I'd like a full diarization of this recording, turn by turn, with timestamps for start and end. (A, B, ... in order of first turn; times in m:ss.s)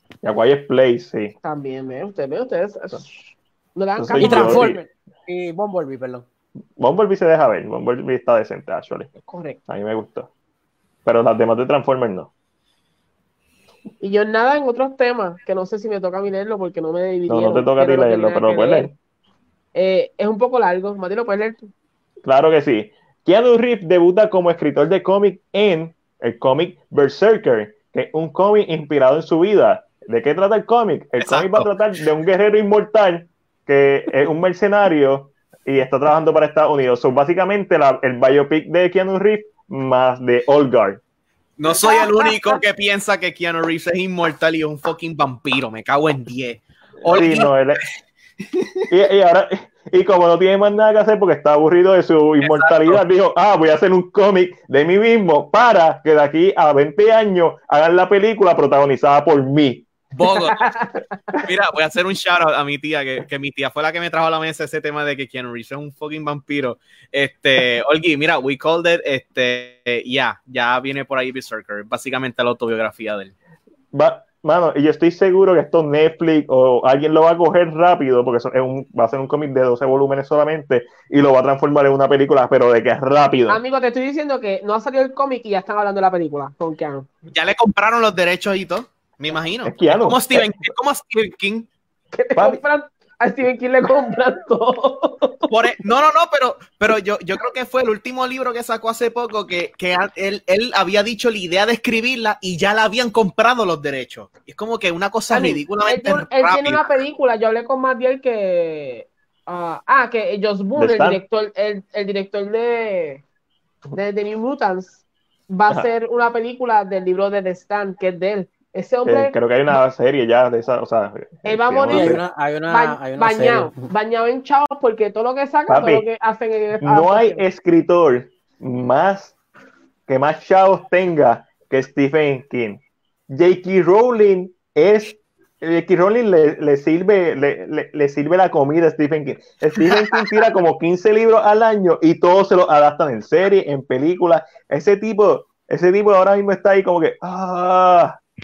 0:00.2-0:01.3 A
0:01.4-0:04.7 B
0:04.0-0:04.8 A
0:04.2-0:06.2 C
0:06.8-0:09.1 A
0:09.3-0:09.6 B
0:09.7-0:10.3 A
0:11.0-0:12.3 A
0:14.0-0:18.9 B
0:17.3-0:18.9 A
0:19.7-0:21.7 B
0:22.2-0:41.0 A
0:31.2-0:31.7 D
0:41.6-0:47.9 D
0:41.7-0:42.6 B
0:47.0-0:47.8 A
0:48.9-0:59.9 A
0:52.4-0:53.0 D
1:00.2-1:00.7 D
1:00.3-1:01.1 B
1:01.4-1:13.3 D
1:13.9-1:23.6 A
1:23.5-1:27.1 B
1:27.3-1:31.7 D
1:29.6-1:30.5 A
1:32.1-1:35.5 B
1:32.4-1:32.6 A
1:35.5-1:46.9 D
1:45.3-1:53.2 B
1:50.8-1:51.2 A
1:53.9-1:59.3 B
1:59.0-2:02.2 A
2:01.4-2:07.4 B
2:01.8-2:03.8 C
2:05.7-2:06.0 A
2:06.8-2:09.3 A
2:10.1-2:28.2 A